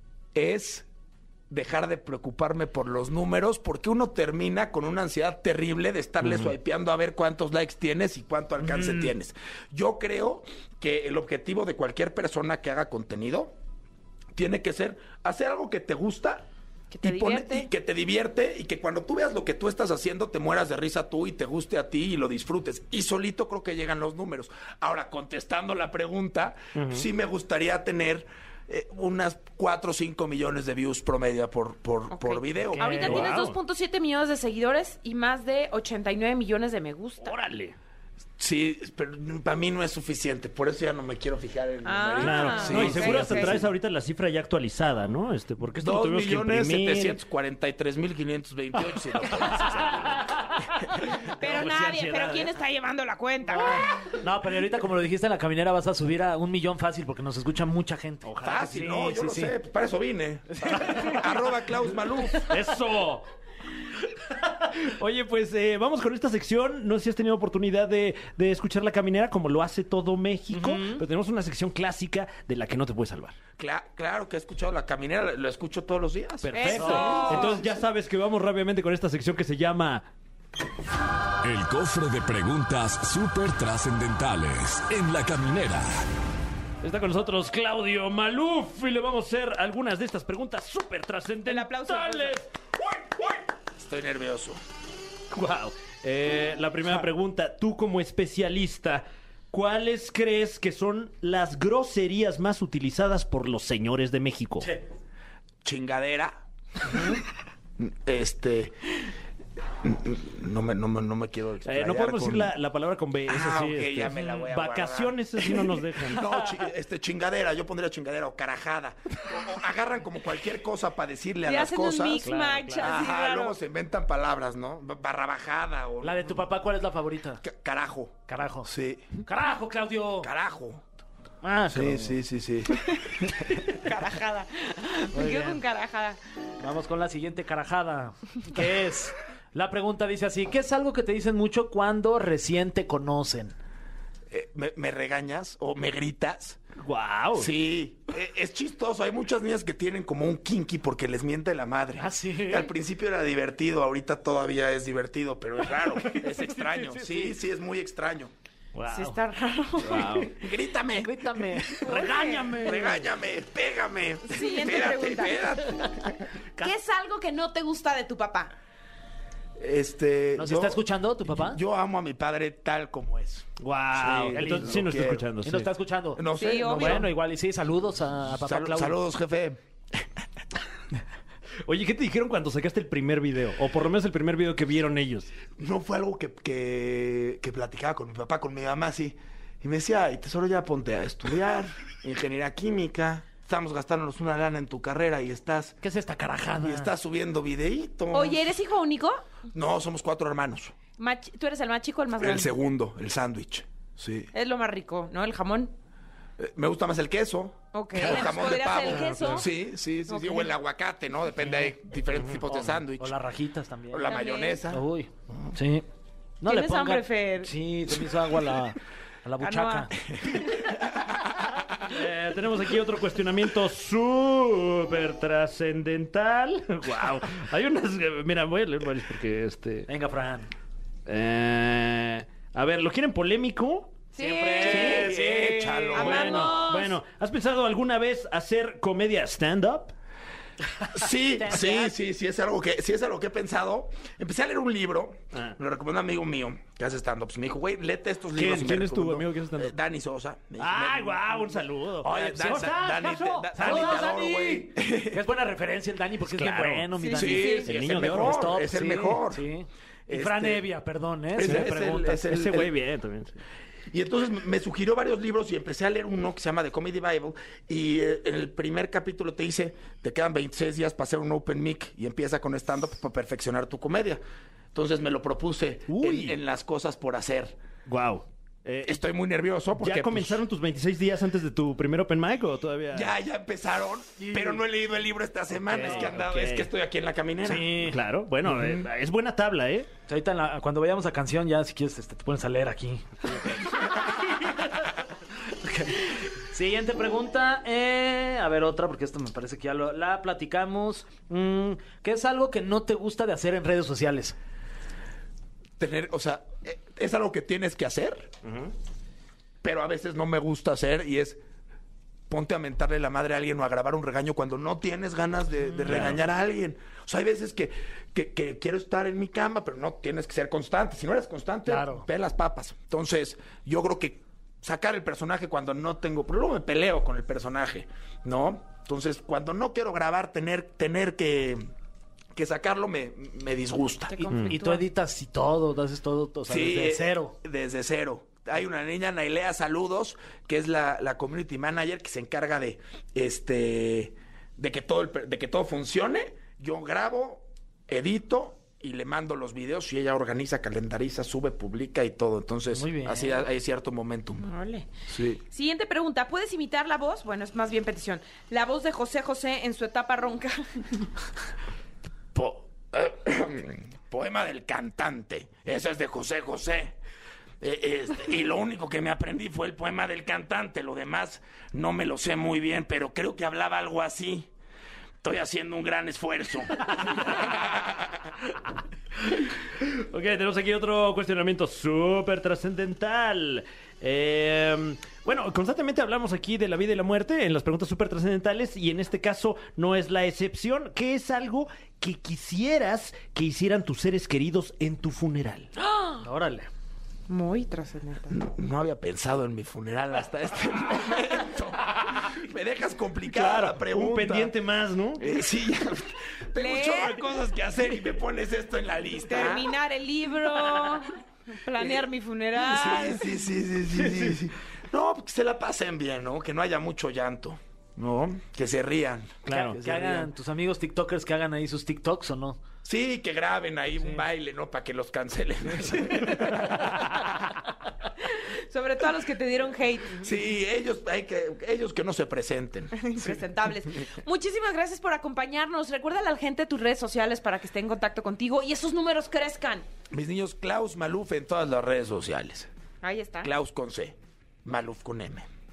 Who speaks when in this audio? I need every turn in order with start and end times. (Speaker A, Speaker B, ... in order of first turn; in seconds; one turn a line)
Speaker A: 0.3-0.8
Speaker A: 1.5-13.5
Speaker B: 6.2-6.5
Speaker A: 14.3-16.5
Speaker C: 16.9-17.7
Speaker A: 17.0-33.2
Speaker B: 26.7-27.1
Speaker C: 32.1-37.4
Speaker D: 32.7-33.3
Speaker B: 32.8-33.6
Speaker B: 37.2-37.8
Speaker A: 38.4-43.7
Speaker C: 41.8-43.6
Speaker B: 42.2-47.2
Speaker A: 45.8-50.3
Speaker A: 50.8-51.3
Speaker B: 51.3-52.5
Speaker C: 51.4-53.8
Speaker D: 53.5-59.5
Speaker B: 58.2-58.7
Speaker A: 58.4-62.5
Speaker D: 60.5-61.1
Speaker B: 62.4-63.2
Speaker B: 64.3-73.4
Speaker D: 70.5-71.0
Speaker A: 73.6-77.6
Speaker B: 76.4-80.0
Speaker C: 76.5-77.6
Speaker D: 76.7-77.4
Speaker E: 81.4-86.0
Speaker B: 86.8-93.4
Speaker C: 91.4-92.4
Speaker A: 93.7-94.6
Speaker B: 95.3-104.7
Speaker A: 105.6-106.4
Speaker A: 107.8-108.8
Speaker A: 109.8-112.5
Speaker B: 111.6-116.3
Speaker A: 113.3-122.3
Speaker C: 121.5-123.5
Speaker B: 122.2-122.9
Speaker A: 122.8-126.4
Speaker D: 126.0-127.4
Speaker A: 127.4-129.1
Speaker D: 128.3-128.7
Speaker D: 129.2-130.3
Speaker A: 130.2-130.8
Speaker D: 131.4-132.2
Speaker A: 131.7-132.9
Speaker C: 133.7-136.2
Speaker D: 135.1-135.6
Speaker D: 136.6-143.5
Speaker A: 144.3-146.6
Speaker B: 146.8-147.5
Speaker A: 147.3-158.3
Speaker D: 151.9-152.7
Speaker D: 156.1-157.2
Speaker D: 158.8-159.1
Speaker C: 158.9-160.3
Speaker B: 159.8-160.3
Speaker A: 160.1-161.6
Speaker D: 161.0-161.8
Speaker C: 161.8-162.7
Speaker B: 161.8-163.0
Speaker A: 162.5-166.2
Speaker C: 164.3-165.4
Speaker C: 166.6-168.5
Speaker A: 169.6-175.3
Speaker D: 170.4-171.6
Speaker B: 173.6-175.7
Speaker D: 174.3-174.8
Speaker D: 175.4-179.0
Speaker A: 176.2-177.1
Speaker C: 176.4-177.1
Speaker A: 178.4-180.0
Speaker B: 181.6-185.3
Speaker A: 185.6-195.8
Speaker D: 195.8-196.9
Speaker A: 196.6-198.4
Speaker C: 198.1-199.2
Speaker A: 199.5-200.7
Speaker C: 201.0-202.5
Speaker A: 202.2-204.3
Speaker C: 204.3-205.7
Speaker A: 206.4-213.2
Speaker C: 207.7-209.5
Speaker B: 208.9-209.4
Speaker C: 210.1-210.5
Speaker D: 213.0-214.1
Speaker A: 213.9-214.8
Speaker C: 214.1-214.6
Speaker D: 214.7-215.8
Speaker D: 216.4-219.9
Speaker C: 216.4-217.5
Speaker C: 219.4-219.9
Speaker A: 220.2-220.5
Speaker B: 221.8-229.9
Speaker D: 229.9-230.5
Speaker B: 231.1-234.0
Speaker C: 234.1-235.1
Speaker D: 234.2-236.2
Speaker B: 234.6-235.1
Speaker A: 234.6-236.6
Speaker C: 235.9-237.0
Speaker B: 235.9-239.9
Speaker A: 240.9-255.2
Speaker D: 241.3-241.9
Speaker B: 248.3-249.7
Speaker B: 250.6-254.2
Speaker D: 252.0-262.1
Speaker B: 256.3-256.9
Speaker C: 256.9-257.7
Speaker A: 257.1-259.5
Speaker B: 257.6-258.5
Speaker A: 260.1-260.6
Speaker A: 261.3-262.7
Speaker B: 261.4-263.4
Speaker A: 263.9-274.2
Speaker A: 274.7-277.6
Speaker B: 275.9-276.3
Speaker B: 277.9-279.0
Speaker A: 278.8-280.4
Speaker B: 279.8-283.1
Speaker A: 282.9-287.9
Speaker D: 284.2-284.6
Speaker B: 285.6-286.7
Speaker D: 287.4-288.0
Speaker B: 287.8-289.9
Speaker A: 288.4-288.9
Speaker D: 290.1-293.4
Speaker D: 295.5-304.4
Speaker A: 305.8-308.3
Speaker B: 308.4-308.7
Speaker A: 309.6-311.4
Speaker A: 312.3-331.7
Speaker B: 315.8-316.2
Speaker D: 321.7-322.1
Speaker A: 332.3-334.2
Speaker C: 334.1-334.8
Speaker D: 334.2-337.3
Speaker B: 334.3-334.6
Speaker A: 336.5-354.5
Speaker D: 352.7-353.4
Speaker C: 354.4-354.9
Speaker A: 355.1-355.4
Speaker C: 355.5-360.6
Speaker A: 362.3-367.0
Speaker A: 367.6-374.5
Speaker A: 375.2-377.7
Speaker B: 376.9-377.5
Speaker B: 379.3-395.7
Speaker D: 396.2-396.7
Speaker C: 397.3-398.4
Speaker A: 398.3-404.5
Speaker B: 403.3-405.2
Speaker A: 405.2-409.7
Speaker C: 406.6-407.2
Speaker C: 409.2-413.3
Speaker A: 412.6-420.3
Speaker B: 419.4-419.8
Speaker D: 419.5-422.6
Speaker A: 422.8-427.5
Speaker C: 428.3-430.2
Speaker A: 430.2-433.0
Speaker C: 432.9-439.9
Speaker A: 440.1-442.7
Speaker C: 443.0-443.5
Speaker A: 443.4-445.5